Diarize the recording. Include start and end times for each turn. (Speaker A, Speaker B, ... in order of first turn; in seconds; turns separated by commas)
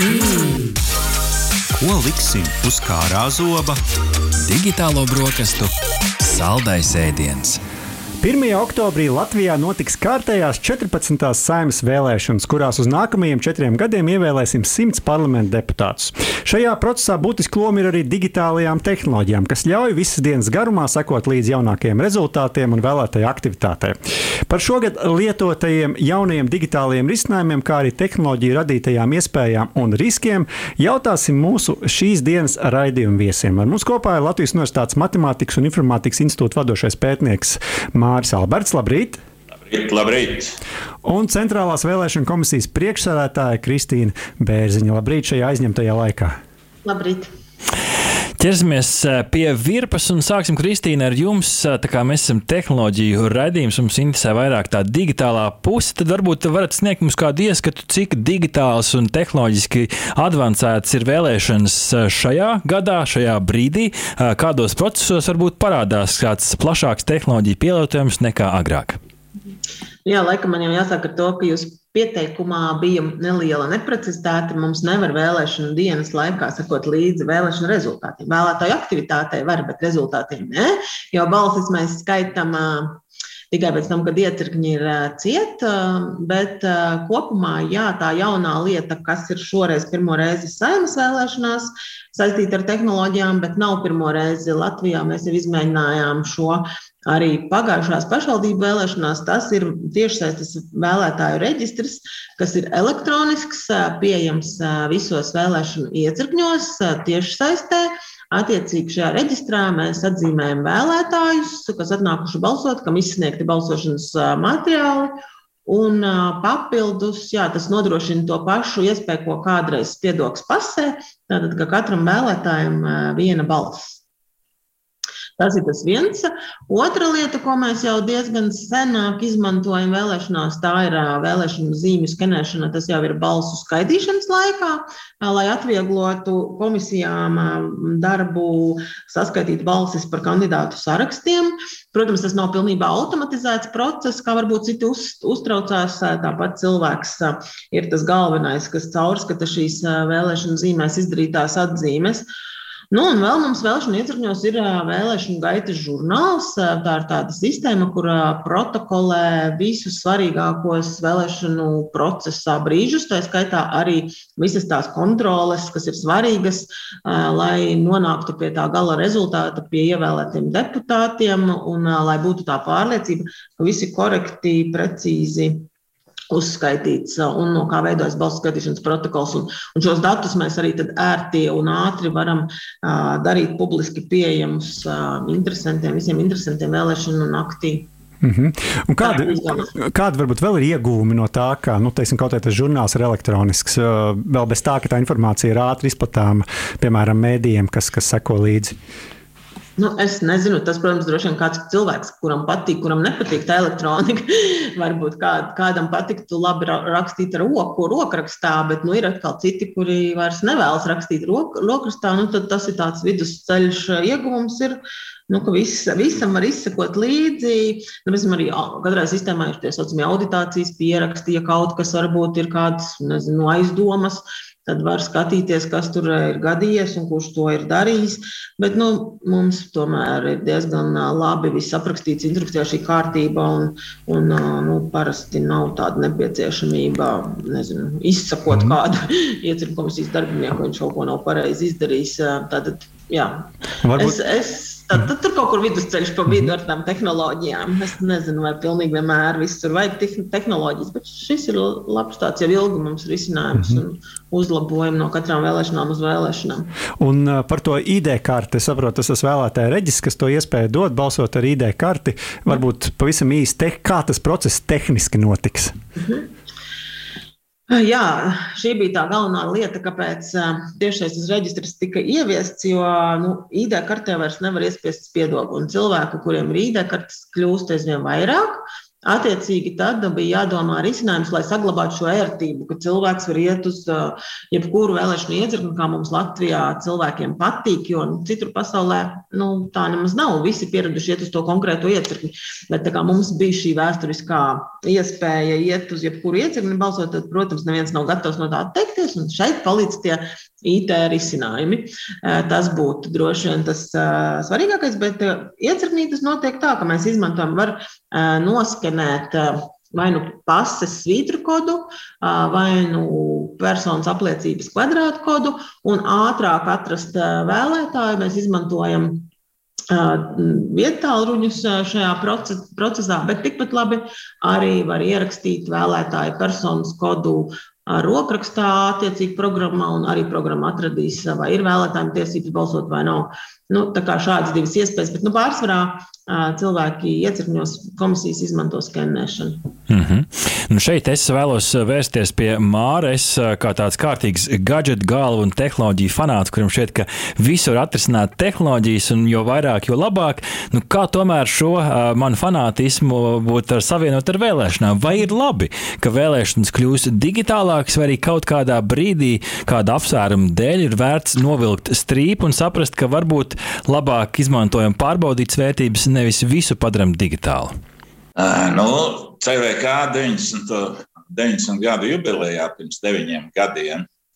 Speaker A: 0.2-0.6, Speaker B: 1.8-3.8, Speaker A: 4.4-7.6, Speaker C: 8.2-24.0, Speaker C: 24.5-39.2, Speaker D: 39.7-40.6, Speaker C: 41.0-46.3, Speaker E: 46.8-47.3, Speaker A: 48.4-69.0, Speaker E: 70.0-115.1, Speaker E: 115.7-124.0, Speaker E: 125.4-152.3, Speaker E: 152.9-175.6, Speaker E: 176.3-187.9, Speaker C: 188.2-198.7, Speaker E: 189.0-189.7, Speaker E: 199.8-214.8, Speaker E: 215.3-256.7, Speaker C: 243.8-244.2, Speaker C: 257.0-265.7, Speaker E: 267.7-319.3, Speaker E: 319.9-339.6, Speaker A: 339.9-367.7, Speaker D: 368.4-374.1